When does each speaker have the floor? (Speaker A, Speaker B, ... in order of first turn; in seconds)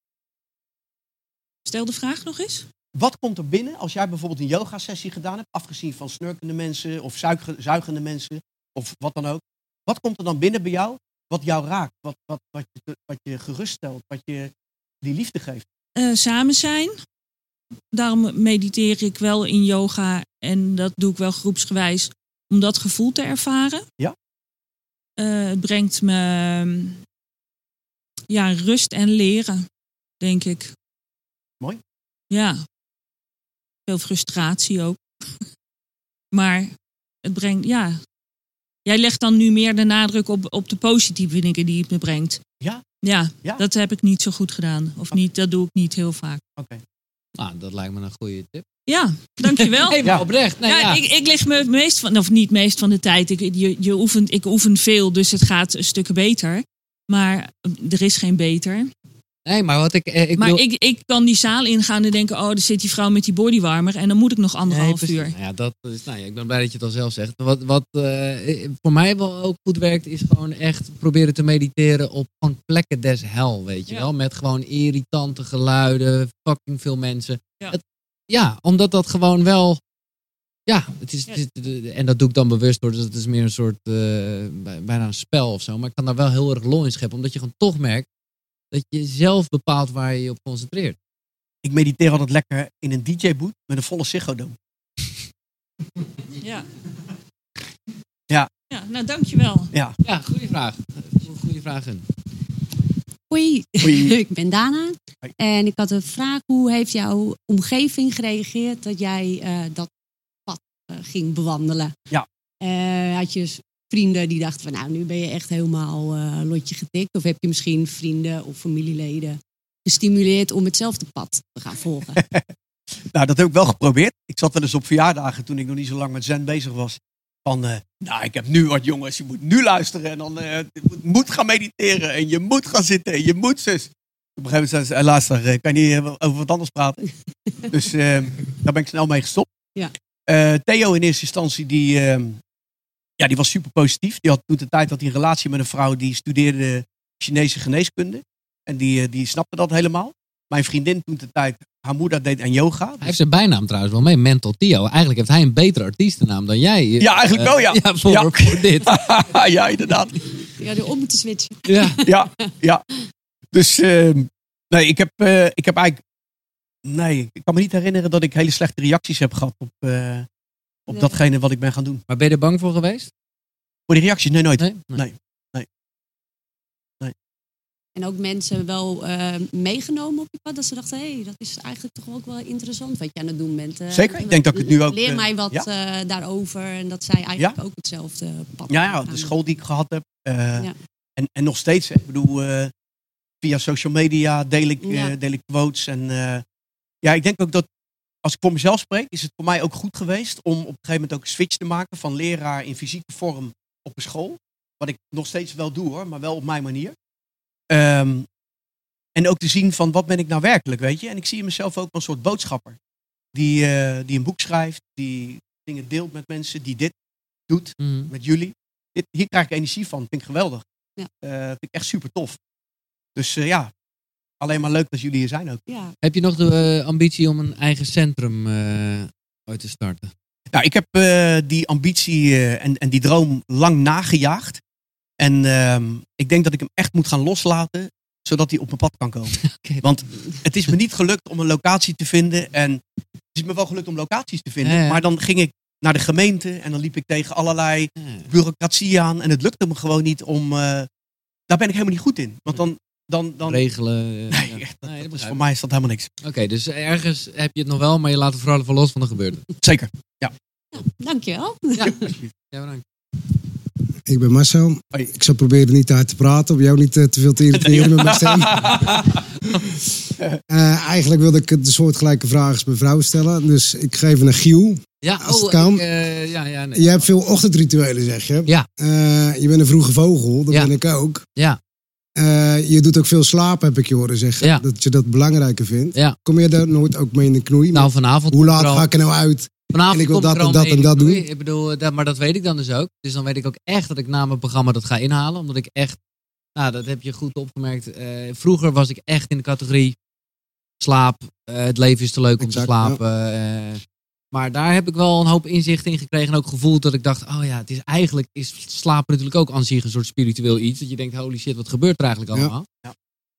Speaker A: 1.7-2.7, 16.0-17.0, 17.9-23.8, 25.2-27.0, 28.3-29.7, 30.2-30.7, 32.3-32.6, 33.9-35.0, 36.3-36.7, 37.2-38.0, 38.9-42.4, 43.0-46.4, 48.9-58.9, 60.4-65.3, 96.4-96.7, 98.7-99.7
Speaker B: 3.0-14.5, 15.0-15.7, 46.6-46.8, 91.6-94.6, 103.8-104.2, 122.2-122.5, 123.1-137.0, 137.7-139.5, 140.3-142.4, 143.2-153.2, 157.0-160.2, 162.1-162.8, 163.5-166.0, 166.8-170.3, 170.9-172.0, 173.9-175.7, 183.9-185.7, 188.7-192.7, 193.4-196.4, 197.0-197.7, 198.2-207.0, 207.7-208.3, 209.2-212.8, 213.3-216.9, 217.5-220.6, 221.2-222.4, 223.2-223.7, 224.4-225.7, 230.5-234.6, 235.2-242.8, 243.3-250.9, 251.5-253.6, 254.3-256.1, 259.6-260.3, 261.8-262.3, 267.5-269.2
Speaker C: 47.4-48.7, 49.4-51.0, 59.5-60.6, 64.7-79.8, 80.7-88.1, 88.7-91.0, 100.0-102.1, 153.0-159.0, 161.7-162.0, 172.1-173.1, 174.6-175.0, 217.8-218.1, 226.0-230.1, 239.4-239.8, 244.6-245.0, 248.0-248.3, 253.5-255.4, 256.2-259.5, 261.8-262.8, 275.0-277.1, 287.7-288.9, 289.7-296.0, 296.6-300.0, 300.8-303.8, 304.3-312.7
Speaker D: 103.3-109.9, 110.5-111.9, 112.6-122.2, 160.6-162.5, 170.9-171.2, 178.0-189.3, 194.8-195.2, 225.7-225.9, 260.8-262.1
Speaker E: 264.1-269.1, 270.5-275.8, 276.8-281.2, 282.2-291.2, 302.4-303.0